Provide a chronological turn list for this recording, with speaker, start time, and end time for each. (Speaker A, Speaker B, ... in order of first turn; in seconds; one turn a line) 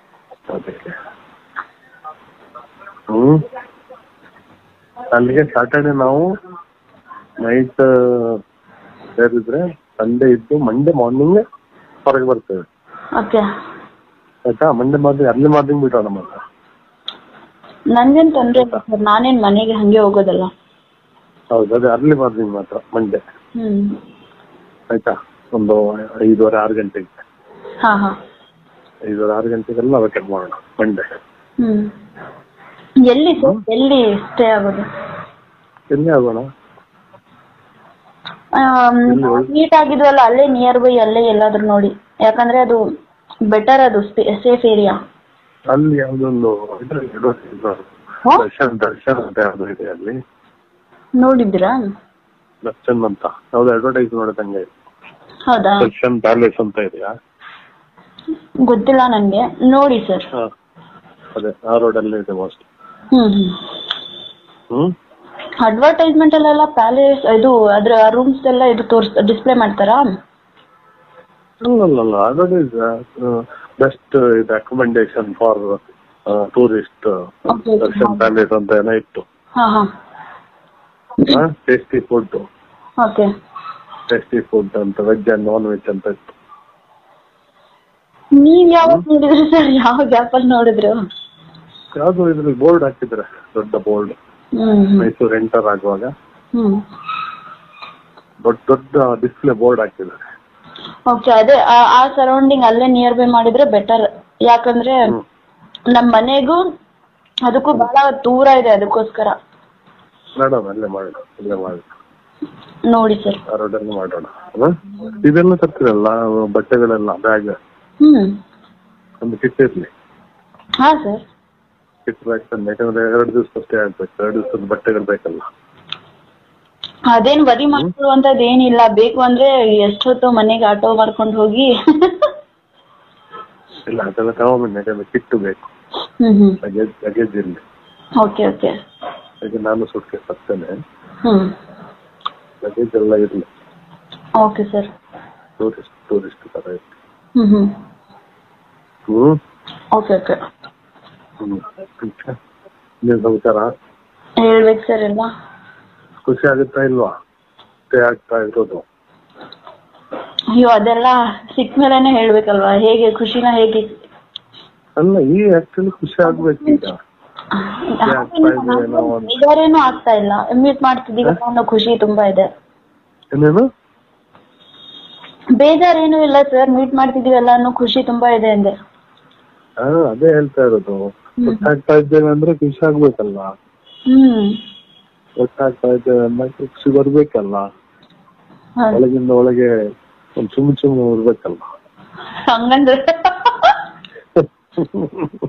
Speaker A: 0.5-0.9
Speaker A: 3.1-3.4
Speaker A: 5.1-6.3
Speaker A: 7.5-8.3
Speaker A: 9.2-11.4
Speaker A: 12.1-12.6
Speaker B: 13.2-13.4
Speaker A: 14.5-16.4
Speaker B: 17.9-20.5
Speaker A: 18.6-18.8
Speaker A: 21.5-23.2
Speaker B: 23.6-23.9
Speaker A: 24.9-27.1
Speaker B: 27.8-28.1
Speaker A: 29.1-31.0
Speaker B: 31.6-31.8
Speaker B: 33.1-34.8
Speaker A: 35.9-36.4
Speaker B: 38.6-42.8
Speaker A: 39.1-39.5
Speaker B: 43.5-44.9
Speaker A: 45.7-47.8
Speaker A: 48.3-50.1
Speaker B: 51.2-51.8
Speaker A: 52.6-54.7
Speaker B: 55.5-55.9
Speaker A: 55.8-57.1
Speaker B: 58.7-60.2
Speaker A: 61.4-62.6
Speaker B: 63.1-63.5
Speaker B: 65.6-70.0
Speaker A: 71.6-75.8
Speaker A: 76.3-77.1
Speaker B: 77.5-78.2
Speaker A: 77.8-79.2
Speaker B: 79.6-79.8
Speaker A: 81.3-82.4
Speaker B: 83.0-83.2
Speaker A: 84.1-86.3
Speaker B: 88.4-90.9
Speaker A: 92.0-94.1
Speaker B: 94.6-95.1
Speaker A: 95.0-96.1
Speaker A: 98.4-100.2
Speaker B: 101.1-105.0
Speaker B: 105.9-106.6
Speaker B: 107.5-109.3
Speaker A: 110.4-111.9
Speaker B: 112.9-113.4
Speaker A: 113.5-117.5
Speaker B: 118.0-118.3
Speaker A: 119.2-119.9
Speaker B: 120.8-121.2
Speaker A: 122.0-125.4
Speaker B: 127.1-132.3
Speaker A: 133.9-135.7
Speaker B: 136.2-136.6
Speaker A: 136.6-137.6
Speaker B: 138.2-138.7
Speaker A: 139.4-140.7
Speaker A: 142.6-143.4
Speaker B: 144.4-144.9
Speaker A: 145.6-146.9
Speaker B: 147.4-147.7
Speaker A: 149.1-149.3
Speaker B: 149.9-150.4
Speaker A: 151.4-152.3
Speaker A: 153.1-153.7
Speaker B: 154.4-155.3
Speaker A: 156.2-157.1
Speaker A: 157.9-158.8
Speaker B: 160.6-163.9
Speaker A: 165.0-166.9
Speaker B: 166.2-166.8
Speaker B: 167.9-172.4
Speaker A: 168.1-169.4
Speaker A: 173.3-173.6
Speaker B: 175.6-178.7
Speaker A: 179.8-183.5
Speaker B: 181.4-181.7
Speaker B: 184.1-184.5
Speaker A: 185.4-187.6
Speaker A: 188.9-189.7
Speaker A: 190.4-191.6
Speaker B: 192.5-193.8
Speaker A: 194.4-195.3